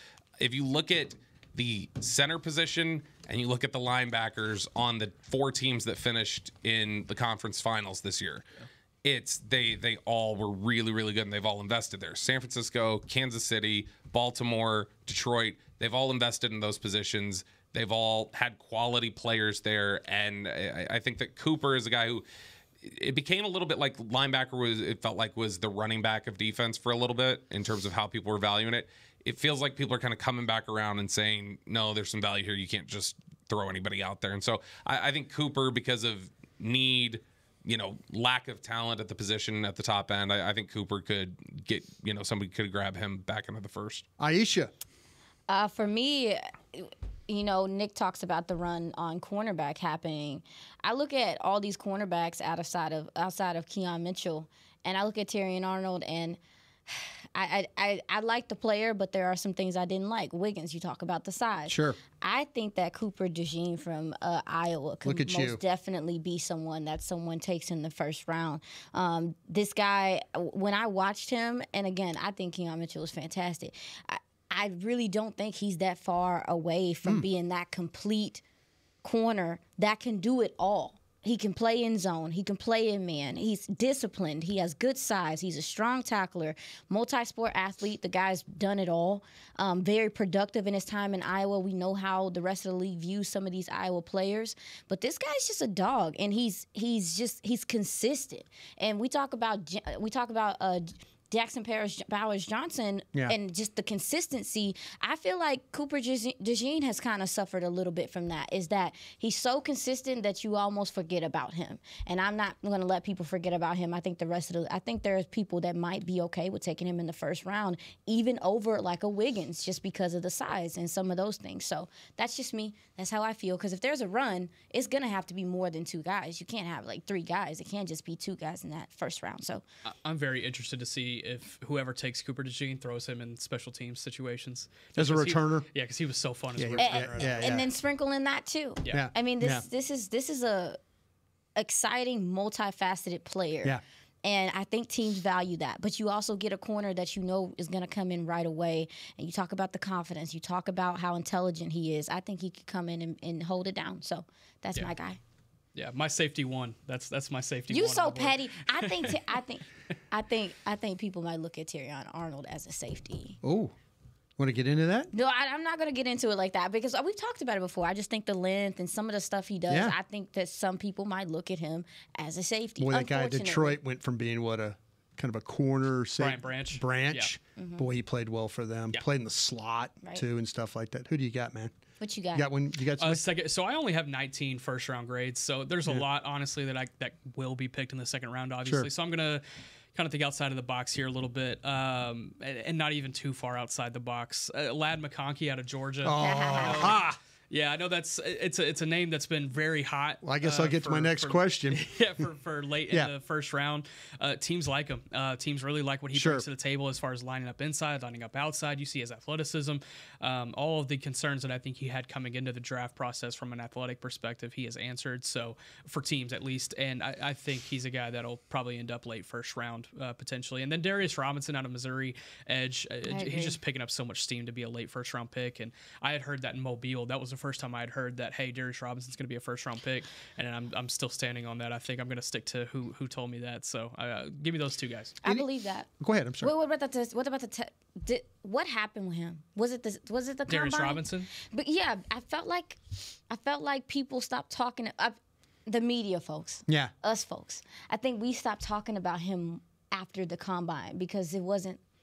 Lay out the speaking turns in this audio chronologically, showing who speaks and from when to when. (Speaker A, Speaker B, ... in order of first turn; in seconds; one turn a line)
Speaker A: 0.4-8.5
Speaker A: 9.0-22.2
Speaker A: 22.8-44.1
Speaker B: 44.2-44.7
Speaker C: 45.5-78.4
Speaker B: 61.7-62.0
Speaker B: 65.0-65.6
Speaker C: 79.0-129.6
Speaker D: 129.9-137.3
Speaker B: 135.0-135.7
Speaker B: 136.6-137.7
Speaker C: 136.8-140.8
Speaker B: 138.9-139.7
Speaker C: 141.6-155.2
Speaker D: 155.8-159.4
Speaker C: 157.7-163.4
Speaker B: 163.4-163.7
Speaker B: 164.4-165.1
Speaker C: 165.1-173.8
Speaker B: 169.7-169.9
Speaker B: 172.8-181.7
Speaker D: 176.2-177.3
Speaker C: 177.6-177.8
Speaker C: 182.0-182.5
Speaker B: 182.3-183.2
Speaker D: 183.0-189.4
Speaker D: 189.9-235.2
Speaker B: 196.0-197.2
Speaker C: 196.2-197.0
Speaker B: 200.2-201.9
Speaker B: 206.1-206.4
Speaker C: 223.1-223.6
Speaker C: 235.2-235.9
Speaker B: 236.0-236.5
Speaker C: 236.4-251.8
Speaker D: 240.5-241.3
Speaker B: 246.7-246.9